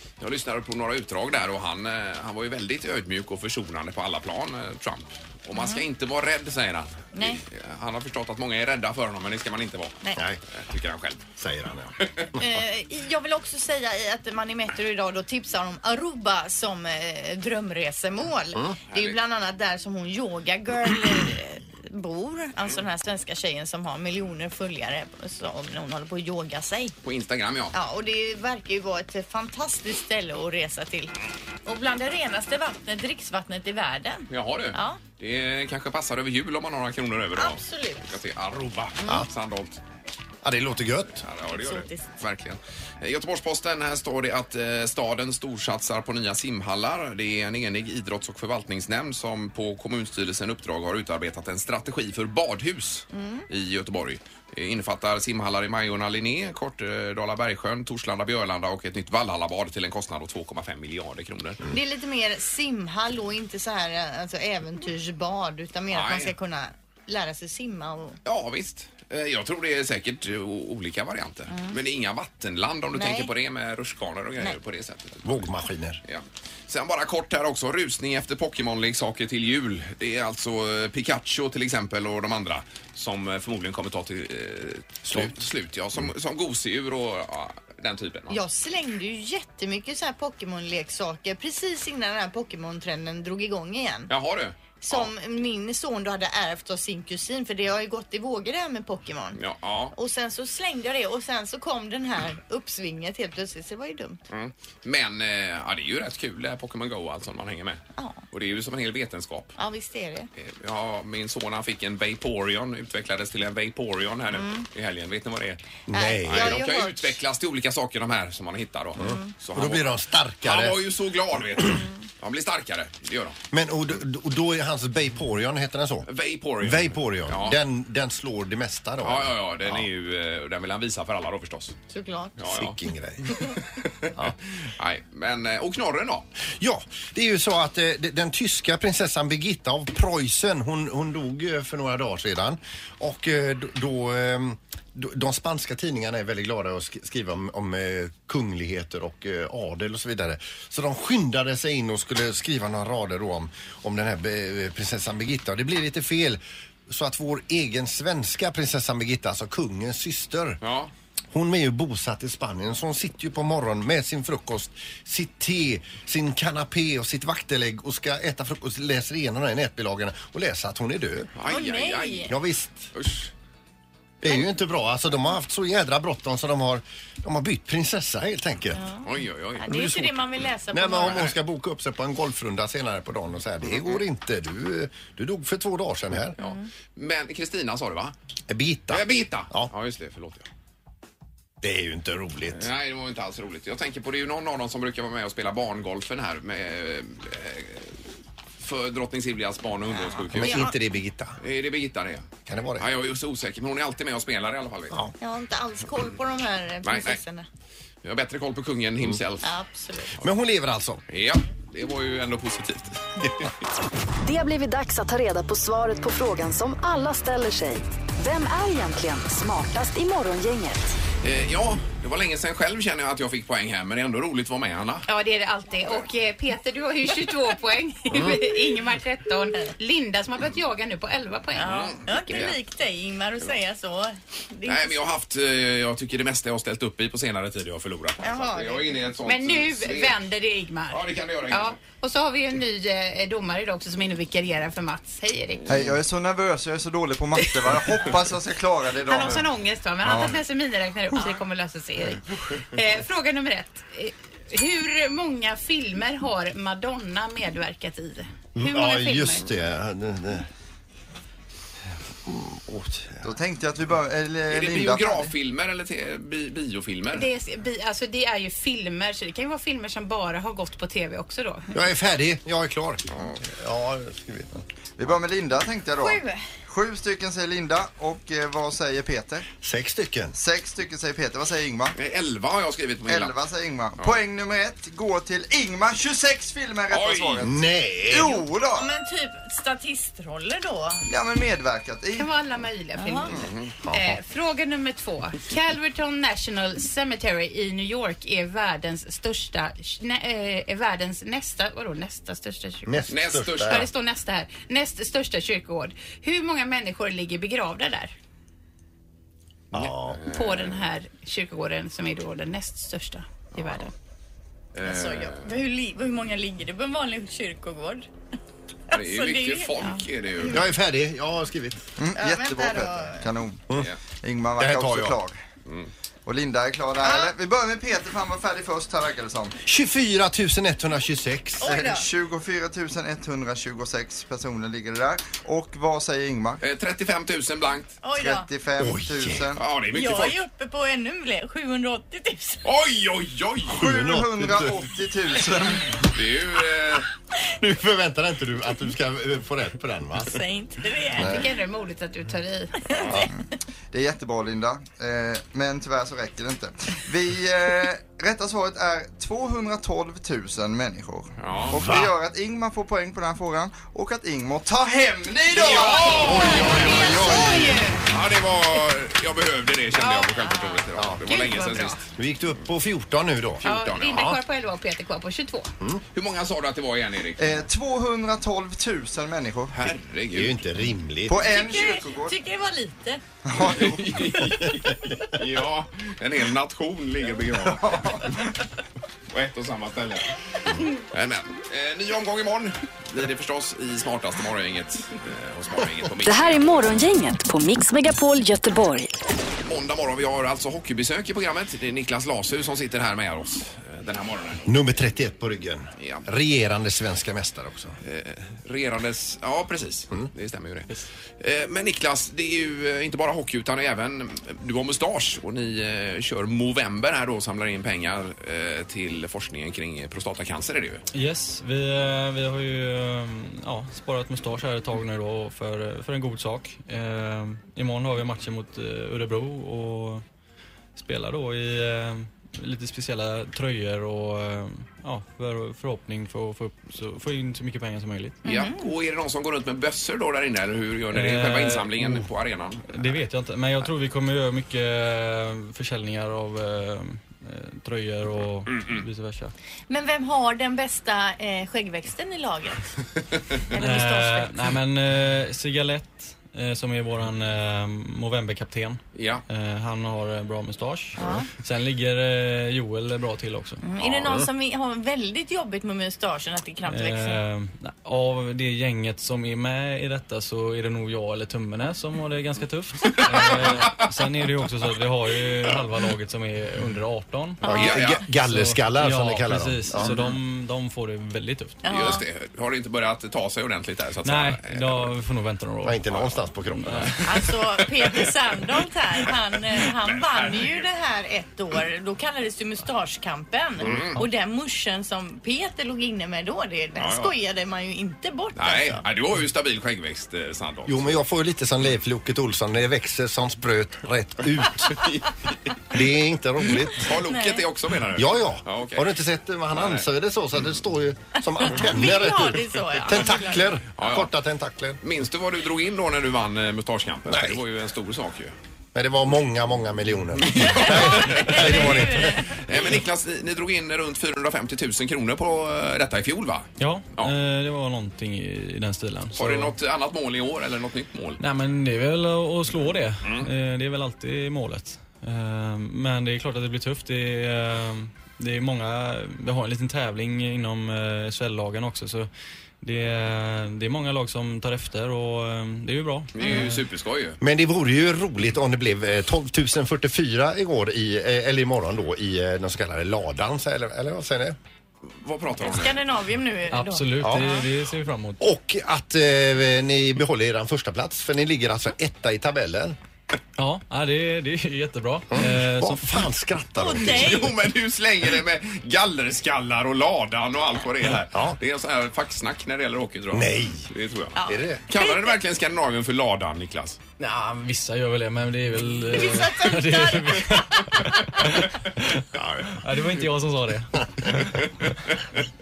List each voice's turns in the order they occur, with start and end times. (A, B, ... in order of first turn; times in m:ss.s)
0:00.2-0:10.0 A
0:05.5-0:05.8 B
0:07.1-0:07.4 B
0:10.5-0:11.2 A
0:11.4-0:12.4 C
0:12.0-0:12.3 A
0:12.4-0:26.9 B
0:18.9-0:19.2 A
0:27.0-0:27.7 A
0:27.7-0:31.1 B
0:31.7-0:35.0 B
0:34.3-0:39.8 A
0:37.4-0:38.2 B
0:40.4-0:41.2 C
0:41.2-1:01.6 A
0:41.5-0:42.1 B
0:53.1-0:53.5 B
1:01.7-1:08.2 B
1:05.9-1:06.3 A
1:08.2-1:15.5 A
1:11.5-1:11.8 B
1:12.9-1:13.3 B
1:15.2-1:16.0 C
1:16.0-1:28.4 A
1:28.3-1:34.1 B
1:34.1-1:35.1 A
1:34.8-1:39.4 B
1:39.4-1:39.9 A
1:39.9-1:44.2 B
1:44.3-1:49.5 A
1:48.0-1:48.2 B
1:49.6-1:50.3 B
1:50.4-1:55.6 A
1:54.3-1:54.7 B
1:55.9-1:56.6 C
1:55.9-1:57.2 B
1:56.2-1:59.8 A
1:59.0-2:00.8 C
1:59.0-1:59.3 B
2:00.4-2:03.4 A
2:03.5-2:06.1 C
2:06.1-2:07.6 A
2:06.6-2:09.9 C
2:09.0-2:11.8 A
2:11.9-2:12.4 B
2:12.4-2:12.8 A
2:12.4-2:13.4 C
2:13.3-2:14.2 A
2:14.8-2:16.3 A
2:16.6-2:40.6 C
2:40.6-2:40.9 A
2:41.3-2:51.3 C
2:51.4-2:52.3 A
2:51.5-2:52.3 B
2:52.3-2:52.9 C
2:52.9-2:53.3 A
2:54.2-2:58.9 C
2:58.7-3:01.2 B
2:59.0-2:59.7 A
2:59.7-3:06.4 C
3:01.0-3:01.4 A
3:06.4-3:08.2 A
3:08.5-3:09.7 C
3:08.9-3:10.5 A
3:11.6-3:12.7 C
3:12.5-3:18.0 A
3:18.6-3:20.7 A
3:20.2-3:20.7 B
3:20.3-3:21.4 C
3:21.4-3:22.3 A
3:22.5-3:22.9 C
3:22.8-3:25.0 A
3:25.2-3:27.5 B
3:26.8-3:27.2 A
3:28.0-3:29.5 A
3:29.4-3:30.2 B
3:30.2-3:31.0 C
3:31.1-3:33.5 A
3:34.2-3:41.0 D
3:41.2-3:45.1 A
3:45.1-3:52.5 E
3:51.6-3:55.0 B
3:51.6-3:52.6 A
3:54.6-4:00.2 A
3:58.2-3:59.0 B
3:59.2-4:06.0 E
4:00.9-4:01.8 A
4:05.7-4:09.5 F
4:07.4-4:08.2 E
4:09.0-4:19.4 E
4:10.0-4:10.3 F
4:18.6-4:20.5 C
4:22.3-4:23.3 C
4:23.2-4:25.3 F
4:24.5-4:27.3 A
4:27.1-4:31.7 E
4:31.7-4:34.6 C
4:33.1-4:33.4 A
4:35.0-4:39.5 F
4:36.0-4:36.4 B
4:39.6-4:40.4 C
4:40.3-4:42.0 F
4:42.0-4:43.4 A
4:43.1-4:48.9 F
4:46.9-4:47.4 A
4:47.4-4:48.4 C
4:48.2-4:51.1 B
4:51.1-4:52.3 F
4:52.2-5:03.1 E
4:53.0-4:53.4 B
4:53.3-4:53.7 A
4:53.9-4:54.2 C
5:02.9-5:03.9 C
5:03.1-5:03.9 A
5:03.6-5:08.1 E
5:09.7-5:10.2 C
5:09.7-5:10.9 A
5:10.3-5:13.9 E
5:14.8-5:15.5 A
5:14.8-5:18.1 B
5:18.9-5:20.7 B
5:18.9-5:20.6 A
5:20.5-5:21.8 C
5:22.0-5:23.7 F
5:22.2-5:23.3 B
5:24.2-5:25.4 F
5:24.6-5:25.2 C
5:25.7-5:25.9 A
5:26.3-5:29.6 F
5:27.0-5:27.3 B
5:29.6-5:31.7 C
5:31.6-5:32.1 B
5:31.6-5:36.6 F
5:36.6-5:38.0 A
5:38.0-5:38.5 B
5:38.2-5:39.6 F
5:38.8-5:39.5 C
5:39.6-5:40.4 A
5:39.9-5:42.6 B
5:42.6-5:43.8 A
5:43.7-5:44.8 C
5:43.7-5:46.0 F
5:46.0-5:47.1 A
5:47.6-5:50.4 C
5:50.2-5:51.4 B
5:51.2-5:51.5 C
5:51.2-5:52.8 E
5:52.9-5:53.3 B
5:53.9-6:06.4 F
6:01.4-6:01.9 A
6:01.8-6:02.1 C
6:05.5-6:07.4 A
6:06.0-6:07.8 C
6:06.4-6:08.0 E
6:06.8-6:07.3 B
6:08.1-6:12.0 A
6:10.0-6:10.3 E
6:10.4-6:10.9 B
6:11.0-6:11.2 C
6:11.2-6:12.0 E
6:12.2-6:14.4 C
6:13.6-6:14.4 A
6:13.6-6:15.7 E
6:16.1-6:17.6 A
6:17.4-6:19.8 F
6:19.7-6:20.6 A
6:20.3-6:21.5 C
6:21.3-6:22.4 F
6:21.4-6:23.2 B
6:23.4-6:24.3 F
6:23.6-6:28.3 A
6:24.5-6:24.9 C
6:27.7-6:28.3 F
6:29.3-6:30.4 A
6:31.1-6:36.9 A
6:36.2-6:39.1 D
6:39.6-6:44.7 A
6:44.7-6:48.0 C
6:46.0-6:46.3 A
6:48.0-7:01.0 A
7:01.1-7:10.2 G
7:11.0-7:18.4 G
7:18.4-7:18.9 B
7:18.5-7:23.2 A
7:21.1-7:22.3 G
7:22.9-7:29.5 G
7:28.7-7:29.0 A
7:29.9-7:32.9 B
7:33.6-7:34.8 B
7:33.8-7:43.8 G
7:39.2-7:39.4 A
7:41.2-7:41.5 B
7:43.8-7:47.4 B
7:44.0-7:44.4 A
7:46.9-8:01.8 G
7:53.4-7:53.9 A
7:57.6-7:57.9 B
7:57.6-8:00.1 C
7:57.7-7:58.2 A
8:01.8-8:02.2 B
8:01.9-8:05.1 A
8:04.2-8:06.0 G
8:05.8-8:07.2 C
8:06.1-8:06.4 A
8:06.7-8:07.4 G
8:07.2-8:19.0 B
8:09.8-8:10.9 A
8:13.8-8:14.2 A
8:17.0-8:17.3 A
8:18.6-8:21.2 A
8:20.9-8:25.0 C
8:24.9-8:25.2 A
8:25.9-8:27.1 C
8:27.0-8:29.1 A
8:27.2-8:27.7 B
8:28.1-8:35.0 C
8:29.7-8:30.1 A
8:31.6-8:33.8 B
8:34.0-8:34.3 A
8:35.0-8:38.6 A
8:37.3-8:37.6 C
8:38.9-8:42.6 C
8:40.4-8:47.3 A
8:40.8-8:43.0 B
8:46.8-8:49.7 G
8:49.4-8:51.4 A
8:51.4-9:02.3 G
9:02.8-9:06.8 G
9:06.4-9:07.4 A
9:06.4-9:06.7 B
9:07.4-9:14.6 C
9:15.1-9:16.0 A
9:15.6-9:17.7 B
9:16.7-9:18.4 G
9:17.2-9:17.5 C
9:18.4-9:23.0 C
9:23.6-9:26.2 G
9:25.3-9:27.5 C
9:26.8-9:27.6 B
9:27.0-9:37.0 A
9:31.3-9:31.6 C
9:33.3-9:33.9 C
9:34.4-9:35.4 B
9:34.4-9:34.8 C
9:37.2-9:42.2 G
9:39.0-9:41.0 B
9:42.3-9:42.8 C
9:42.8-9:44.5 G